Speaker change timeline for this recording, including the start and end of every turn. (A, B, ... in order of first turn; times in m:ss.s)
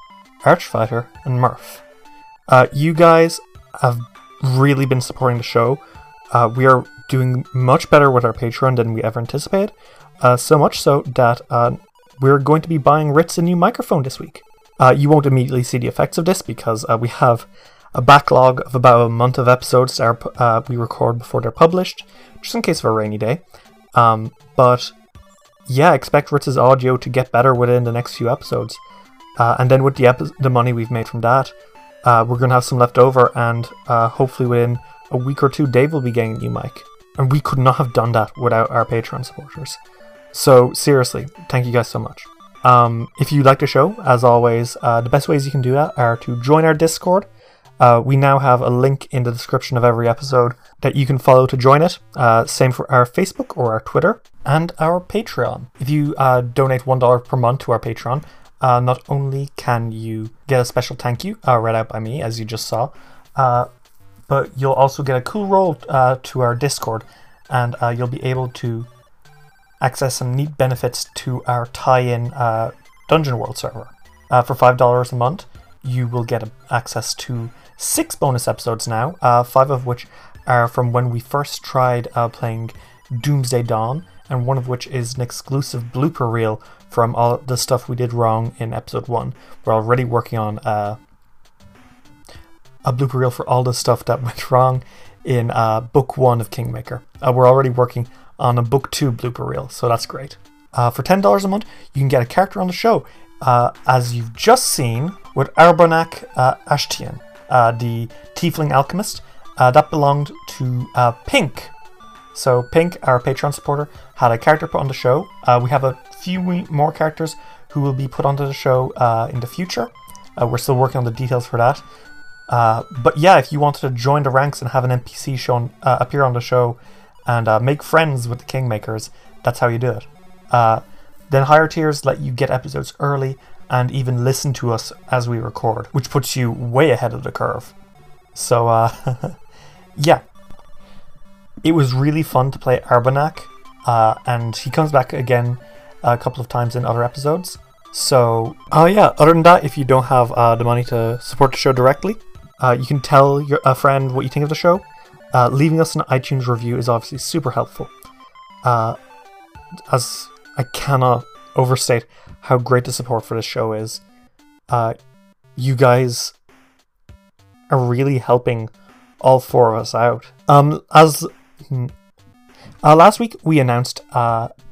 0:00.4-0:01.8 A
0:02.5-0:23.4 A
0:23.9-0:24.9 A
0:25.6-0:28.8 A
0:29.4-0:39.8 A
0:40.3-0:47.3 A
0:47.8-1:03.7 A
1:04.3-1:08.9 A
1:09.8-1:31.0 A
1:32.8-1:51.7 A
1:52.3-2:01.8 A
2:02.5-2:17.7 A
2:18.3-2:19.4 A
2:20.0-2:20.2 A
2:21.6-2:37.9 A
2:38.6-2:39.0 A
2:39.9-2:44.0 A
2:44.7-2:44.9 A
2:45.6-2:46.3 A
2:47.7-2:51.9 A
2:52.8-2:54.5 A